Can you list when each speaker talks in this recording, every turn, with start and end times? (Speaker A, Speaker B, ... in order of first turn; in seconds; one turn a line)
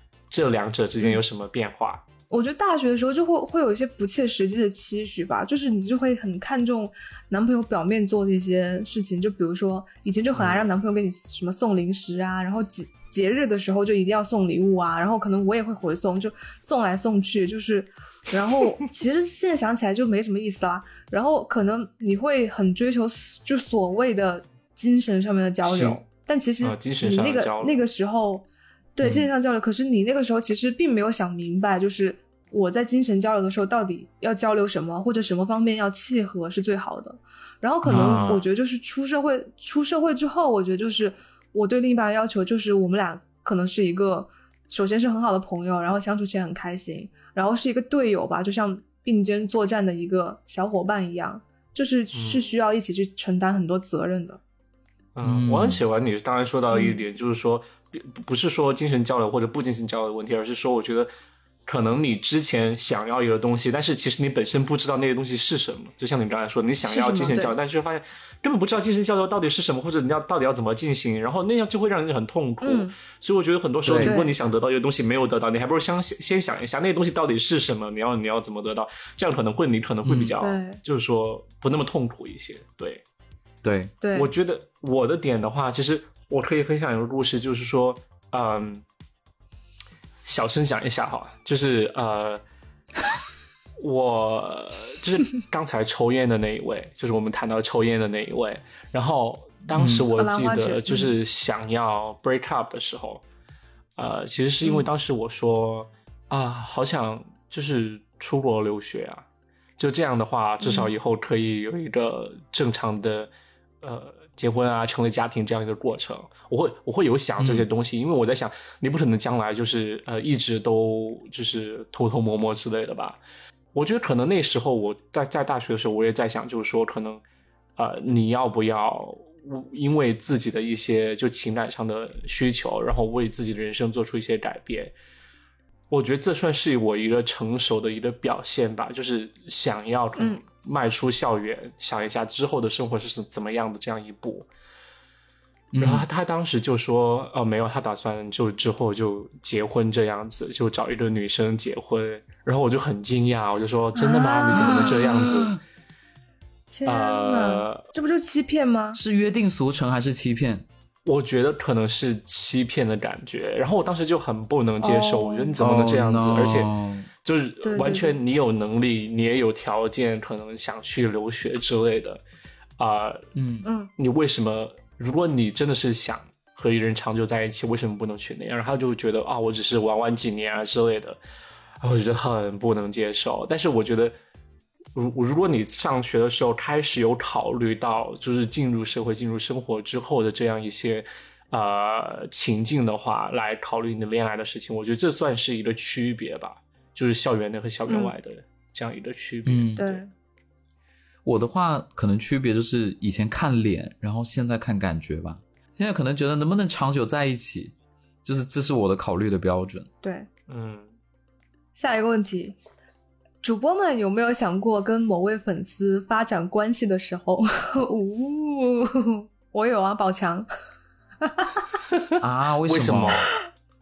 Speaker A: 0.3-2.0
Speaker B: 2.3-54.4
Speaker A: 10.3-10.7
Speaker A: 25.6-26.0
Speaker A: 26.6-27.8
Speaker C: 37.9-38.2
Speaker A: 37.9-38.5
Speaker A: 52.1-52.5
Speaker A: 55.2-61.1
Speaker C: 55.2-55.8
Speaker B: 56.7-57.0
Speaker A: 61.7-83.0
Speaker B: 66.8-67.5
Speaker B: 72.6-72.9
Speaker C: 73.8-74.2
Speaker B: 74.0-74.3
Speaker C: 80.0-80.3
Speaker B: 80.4-80.8
Speaker C: 83.6-84.0
Speaker B: 84.0-84.3
Speaker A: 84.1-88.8
Speaker A: 90.2-92.4
Speaker A: 93.8-103.2
Speaker C: 99.7-100.1
Speaker B: 100.2-101.1
Speaker A: 104.0-109.2
Speaker A: 109.8-123.2
Speaker B: 110.6-110.9
Speaker C: 117.4-117.7
Speaker A: 123.7-127.2
Speaker A: 127.8-134.9
Speaker A: 135.9-144.5
Speaker B: 140.2-140.4
Speaker C: 145.7-146.1
Speaker A: 145.8-155.6
Speaker B: 154.0-155.0
Speaker C: 154.5-155.6
Speaker B: 156.7-159.0
Speaker A: 156.9-157.8
Speaker C: 158.9-160.7
Speaker A: 161.1-166.7
Speaker B: 164.8-165.5
Speaker C: 165.6-167.1
Speaker A: 167.2-172.2
Speaker B: 167.6-168.2
Speaker A: 172.8-173.3
Speaker C: 173.4-173.7
Speaker B: 173.6-173.9
Speaker A: 174.0-181.2
Speaker A: 181.8-184.2
Speaker A: 184.9-200.0
Speaker B: 197.9-198.1
Speaker C: 199.5-199.8
Speaker B: 199.8-200.1
Speaker C: 201.2-209.9
Speaker B: 210.0-210.3
Speaker A: 210.5-210.9
Speaker B: 211.8-212.6
Speaker B: 213.4-220.5
Speaker B: 221.2-221.7
Speaker C: 222.2-223.3
Speaker A: 222.7-223.3